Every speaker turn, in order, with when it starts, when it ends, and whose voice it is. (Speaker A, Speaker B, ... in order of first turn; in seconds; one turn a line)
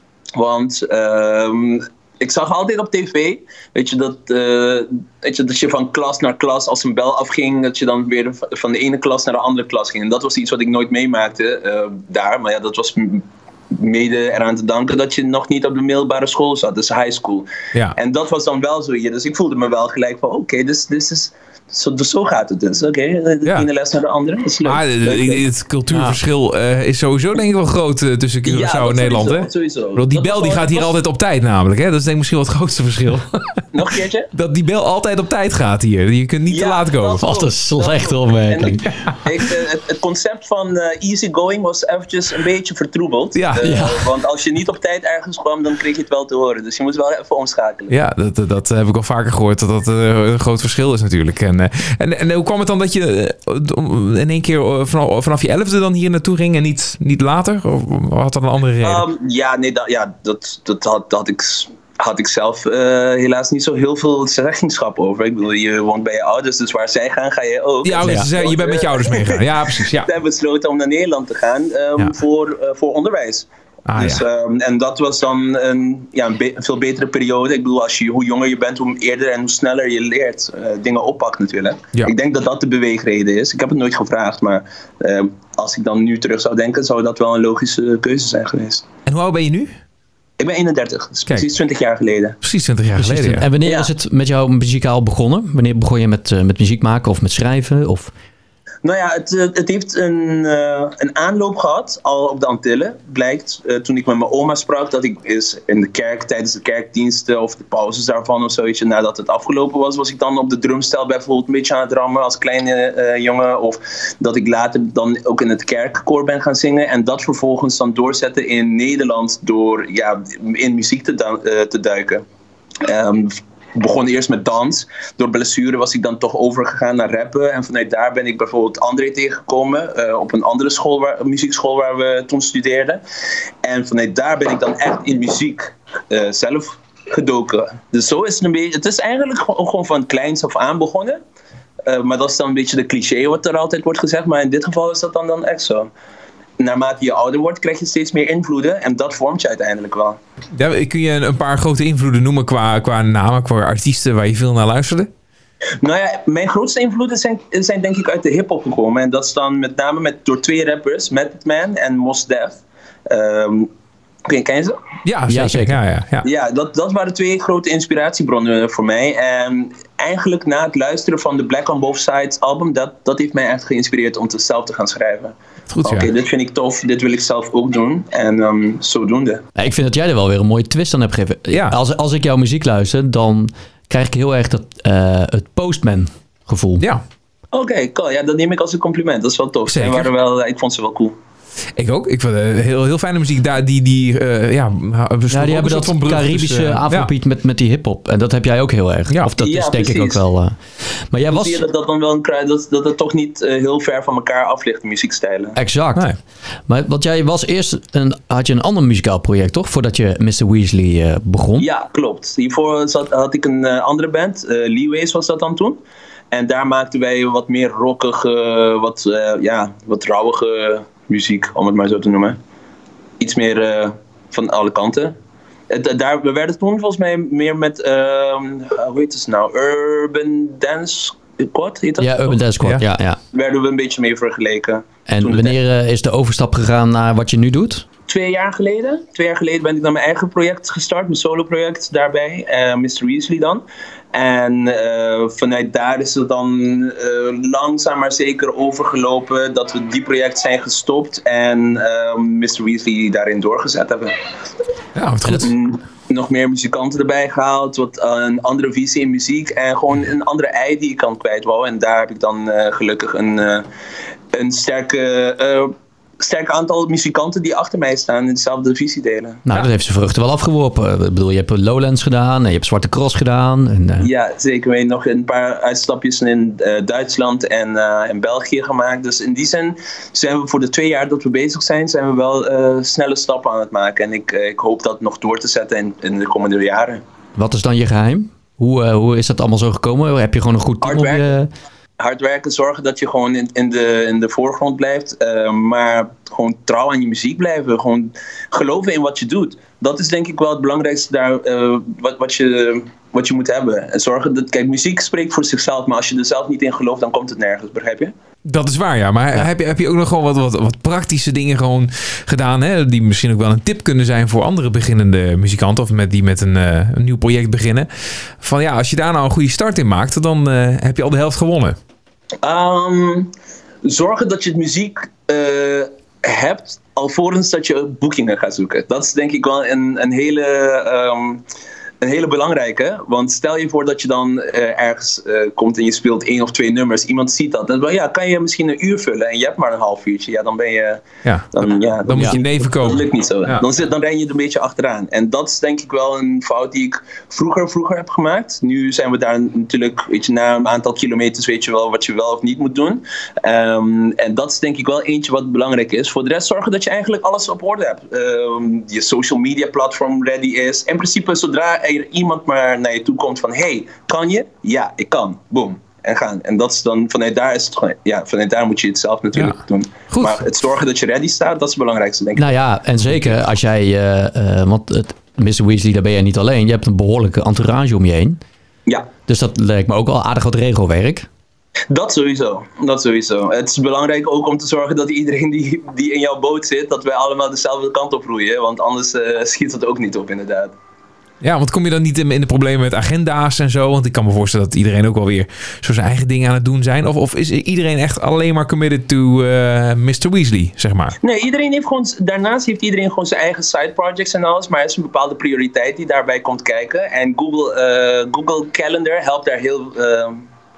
Speaker A: 0.3-25.4
Speaker B: 24.6-33.6
Speaker C: 25.9-26.1
Speaker A: 28.4-30.9
Speaker A: 33.7-34.3
Speaker B: 34.3-37.3
Speaker A: 36.5-47.9
Speaker C: 37.2-38.8
Speaker B: 38.7-39.2
Speaker B: 43.3-43.8
Speaker C: 43.6-44.0
Speaker B: 47.9-59.0
Speaker A: 58.8-88.8
Speaker B: 67.8-70.1
Speaker C: 68.0-68.3
Speaker B: 73.9-74.2
Speaker B: 89.0-89.7
Speaker A: 90.4-92.4
Speaker B: 92.4-93.5
Speaker C: 93.0-98.1
Speaker A: 93.6-93.9
Speaker A: 98.8-122.2
Speaker A: 122.8-133.0
Speaker A: 133.6-141.2
Speaker A: 141.8-145.9
Speaker A: 146.6-150.2
Speaker B: 150.5-155.1
Speaker A: 155.8-163.7
Speaker A: 164.2-164.8
Speaker B: 165.0-166.2
Speaker C: 165.3-165.8
Speaker A: 166.2-179.4
Speaker B: 175.7-176.1
Speaker C: 179.6-186.8
Speaker B: 181.5-181.7
Speaker A: 187.5-191.2
Speaker B: 189.7-190.1
Speaker B: 191.8-197.1
Speaker C: 195.3-200.6
Speaker A: 199.4-200.2
Speaker C: 201.1-201.6
Speaker A: 201.3-205.6
Speaker C: 205.5-206.1
Speaker C: 206.7-211.7
Speaker A: 211.6-222.4
Speaker A: 223.2-225.2
Speaker A: 225.7-232.4
Speaker C: 232.0-233.2
Speaker A: 233.3-235.6
Speaker C: 235.1-237.8
Speaker A: 238.1-254.2
Speaker B: 254.9-255.5
Speaker A: 255.3-263.6
Speaker A: 264.3-269.4
Speaker C: 269.4-274.1
Speaker A: 274.0-287.0
Speaker C: 287.4-291.5
Speaker A: 290.8-291.3
Speaker A: 292.0-308.1
Speaker B: 308.4-317.9
Speaker B: 318.4-321.8
Speaker A: 322.4-323.3
Speaker A: 323.8-331.4
Speaker A: 332.0-372.5
Speaker B: 341.2-343.6
Speaker C: 342.1-342.4
Speaker B: 370.1-370.4
Speaker C: 372.4-378.4
Speaker C: 379.3-381.3
Speaker A: 381.9-390.7
Speaker B: 391.4-401.1
Speaker A: 401.2-410.4